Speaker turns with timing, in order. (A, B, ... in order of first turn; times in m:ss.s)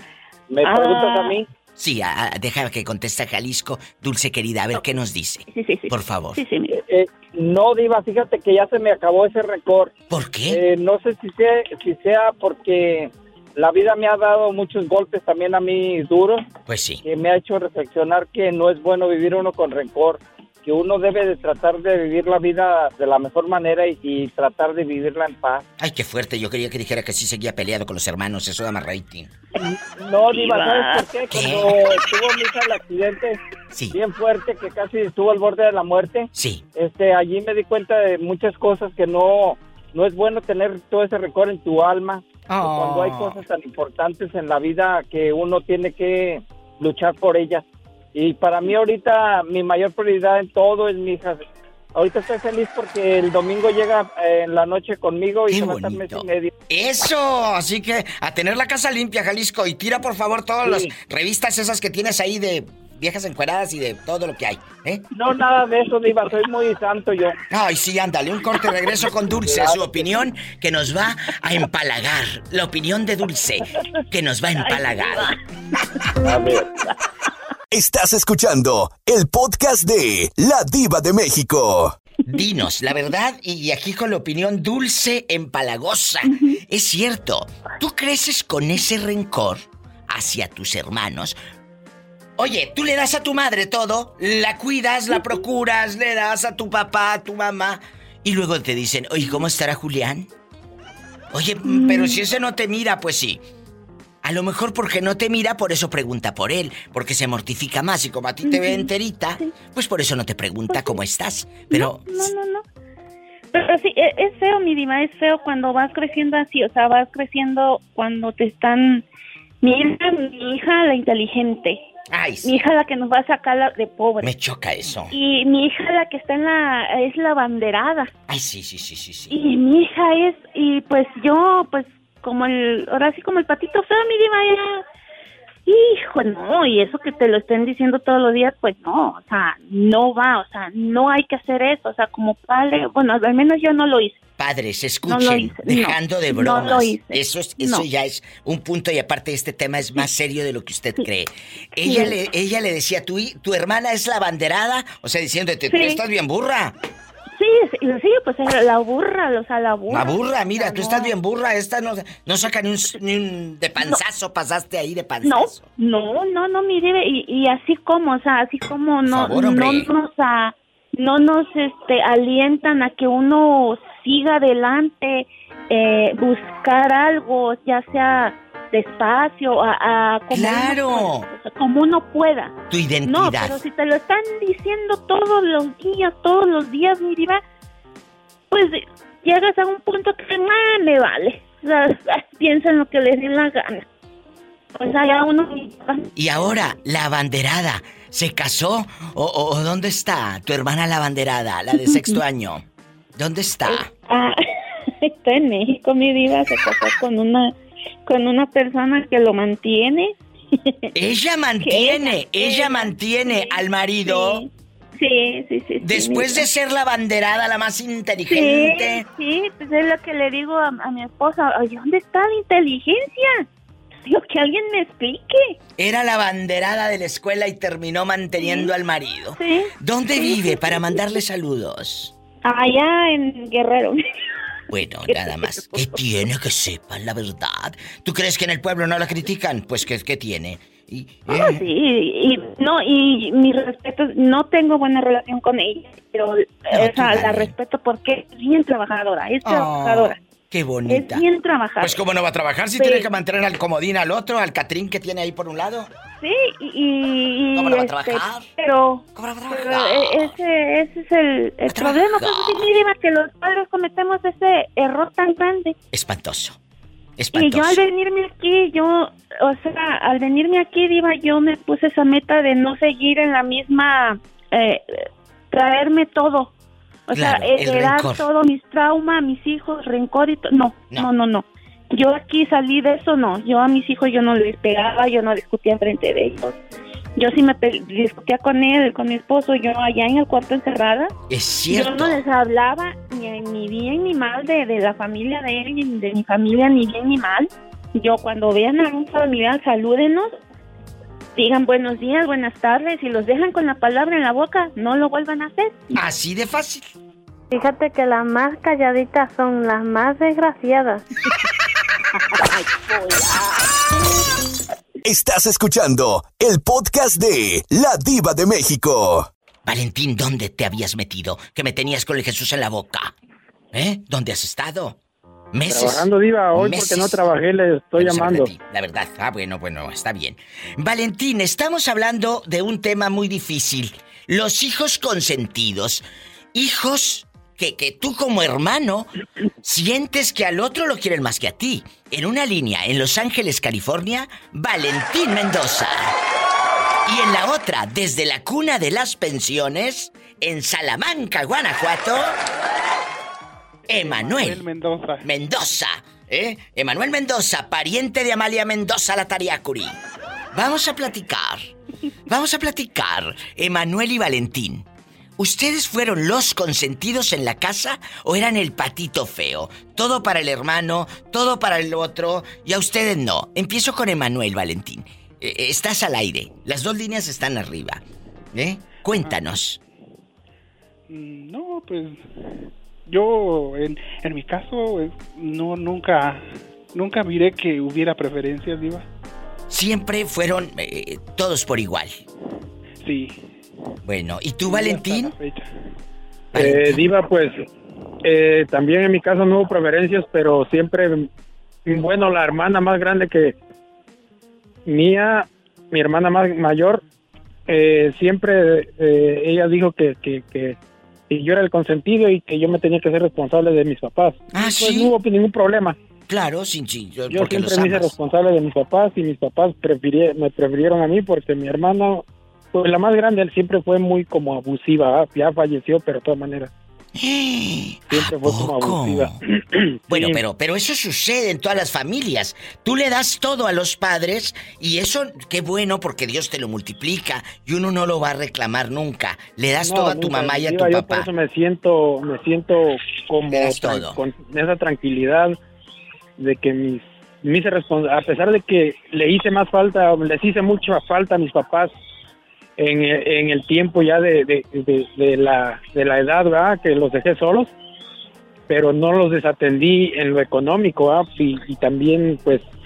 0:00.5-0:01.5 A
0:00.6-0:01.4 B
0:01.8-0:06.4 C
0:05.5-0:06.8 B
0:06.7-0:09.9 A
0:10.1-0:10.6 C
0:10.5-0:16.4 A
0:16.7-0:17.0 C
0:17.0-0:25.6 A
0:25.8-0:29.3 C
0:29.7-0:33.4 A
0:30.3-0:31.1 B
0:31.3-0:31.8 C
0:33.7-0:34.0 C
0:33.9-0:56.5 A
0:36.3-0:36.6 C
0:42.5-0:43.4 C
0:55.5-1:05.0 C
1:00.6-1:00.9 A
1:05.1-1:07.4 A
1:07.5-1:15.3 C
1:09.4-1:10.2 A
1:16.2-1:16.7 A
1:17.7-1:22.0 D
1:22.3-1:31.4 C
1:32.4-1:40.3 C
1:41.3-1:43.4 C
1:41.6-1:42.2 B
1:44.2-1:52.3 C
1:48.4-1:49.5 B
1:50.7-1:51.0 B
1:51.7-1:52.6 B
1:53.5-1:59.0 B
1:59.6-2:01.9 B
2:02.1-2:02.6 C
2:02.4-2:04.3 B
2:04.2-2:05.2 C
2:05.1-2:08.1 B
2:08.3-2:09.4 C
2:09.3-2:14.8 B
2:15.7-2:24.2 B
2:24.4-2:36.8 C
2:25.1-2:27.9 B
2:31.8-2:32.2 B
2:35.7-2:36.0 B
2:37.4-2:41.1 B
2:39.9-2:45.7 C
2:45.2-3:07.4 B
2:49.0-2:49.9 C
3:00.3-3:01.3 C
3:02.7-3:03.6 C
3:08.5-3:13.8 B
3:14.8-3:16.1 B
3:16.2-3:22.6 C
3:21.8-3:22.2 B
3:23.2-3:23.9 C
3:23.6-3:24.4 B
3:25.0-3:27.5 B
3:28.0-3:30.8 B
3:30.9-3:34.4 C
3:31.6-3:36.5 B
3:35.8-3:39.0 C
3:38.3-3:43.5 B
3:44.0-3:45.6 B
3:45.8-3:52.1 C
3:48.4-3:48.7 B
3:49.4-3:51.0 B
3:52.4-3:54.0 B
3:54.7-4:01.6 C
3:55.1-3:56.0 B
4:01.3-4:10.2 B
4:06.7-4:07.5 C
4:09.4-4:11.3 C
4:10.9-4:12.0 B
4:11.8-4:15.9 C
4:12.8-4:13.1 B
4:16.2-4:25.8 B
4:17.5-4:18.5 C
4:19.2-4:20.4 C
4:21.7-4:22.7 C
4:25.9-4:26.6 C
4:27.2-4:27.8 C
4:27.3-4:36.5 B
4:37.1-4:46.6 B
4:37.1-4:38.3 C
4:47.2-4:51.1 B
4:51.3-4:52.2 C
4:51.7-5:00.4 B
5:01.4-5:06.0 B
5:05.9-5:06.9 C
5:07.5-5:11.0 E
5:15.0-5:19.3 D
5:19.6-5:23.1 C
5:23.7-5:25.0 C
5:25.5-5:27.2 C
5:25.7-5:28.5 F
5:28.0-5:39.1 C
5:39.6-5:46.2 C
5:47.1-5:52.4 C
5:53.9-5:54.6 C
5:53.9-5:55.3 G
5:55.2-6:00.0 C
6:00.5-6:01.7 C
6:02.3-6:04.9 C
6:05.4-6:19.8 C
6:21.1-6:22.2 G
6:23.1-6:29.1 G
6:29.7-6:32.2 C
6:33.0-6:33.4 G
6:34.0-6:35.3 C
6:34.6-6:35.7 G
6:36.5-6:37.1 C
6:36.5-6:37.6 F
6:38.2-6:41.3 F
6:41.9-6:43.6 F
6:44.9-6:47.0 F
6:47.7-6:50.8 F
6:51.3-6:56.0 F
6:54.5-6:55.2 C
6:56.3-6:58.1 C
6:57.3-7:06.7 F
7:07.2-7:09.4 C
7:08.1-7:10.4 F
7:10.1-7:21.3 C
7:19.8-7:25.6 F
7:23.5-7:24.2 C
7:26.4-7:31.9 F
7:32.8-7:37.7 F
7:38.7-7:42.7 F